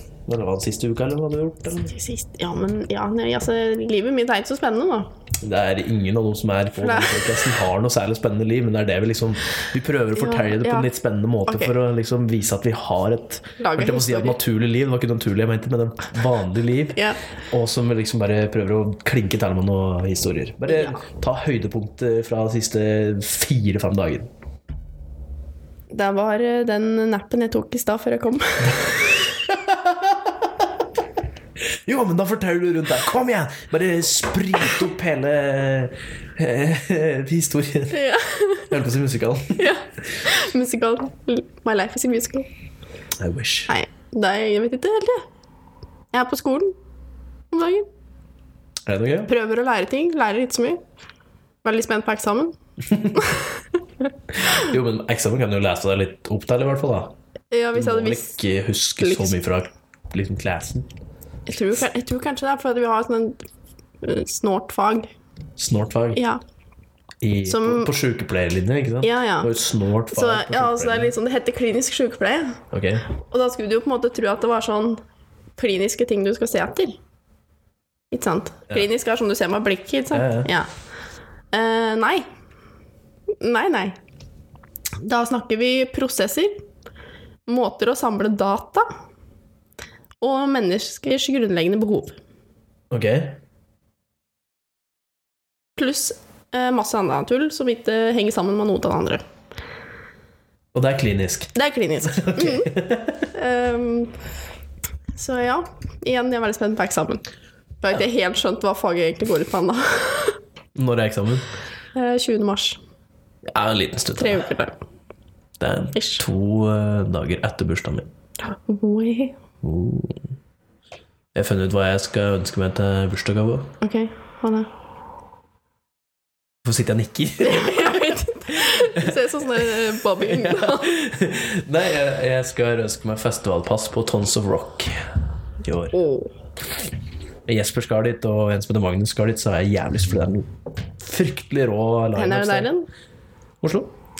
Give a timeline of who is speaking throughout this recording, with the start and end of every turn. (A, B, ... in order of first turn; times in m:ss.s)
0:00.3-0:02.0 A
0:01.9-0:05.1 B
0:05.4-0:24.3 A
0:06.8-0:07.5 B
0:10.1-0:10.9 B
0:11.5-0:11.7 B
0:13.6-0:14.4 B
0:16.9-0:17.2 B
0:20.7-0:21.0 B
0:25.9-0:29.2 B
0:29.5-0:30.5 A
0:31.9-0:38.0 A
0:37.9-0:38.8 B
0:38.6-0:39.7 A
0:39.6-0:42.5 B
0:43.2-0:43.7 A
0:43.7-0:45.2 B
0:46.1-0:46.8 B
0:47.5-0:47.9 B
0:48.9-0:49.3 A
0:49.3-0:50.8 B
0:51.6-0:52.6 B
0:52.9-0:53.2 A
0:53.1-0:53.8 B
0:54.4-0:57.1 A
0:57.5-0:58.4 B
0:57.7-1:00.9 A
0:59.0-0:59.3 B
1:01.5-1:03.4 B
1:04.0-1:05.1 B
1:05.6-1:06.2 A
1:06.1-1:06.4 B
1:07.2-1:11.2 A
1:07.4-1:07.9 B
1:09.0-1:09.5 B
1:10.1-1:12.6 B
1:12.7-1:13.1 A
1:13.1-1:15.0 B
1:15.6-1:17.0 B
1:18.1-1:20.7 B
1:20.1-1:20.5 A
1:21.5-1:22.2 B
1:23.4-1:24.0 B
1:25.0-1:26.6 B
1:27.5-1:28.9 B
1:30.2-1:32.2 B
1:32.9-1:33.4 A
1:35.8-1:39.2 B
1:40.7-1:43.3 A
1:41.6-1:42.7 B
1:43.3-1:44.2 B
1:45.1-1:47.2 B
1:47.8-1:50.4 B
1:50.8-1:51.5 A
1:51.9-1:52.8 B
1:53.5-1:54.4 A
1:54.2-1:54.8 B
1:55.6-1:58.1 A
1:56.0-1:56.2 B
1:58.4-1:59.4 B
1:59.6-2:00.2 A
2:01.3-2:03.8 A
2:03.8-2:04.7 B
2:06.6-2:15.1 A
2:07.4-2:10.9 B
2:15.6-2:16.0 A
2:15.9-2:16.3 B
2:17.5-2:22.7 A
2:22.2-2:22.9 B
2:23.6-2:23.9 A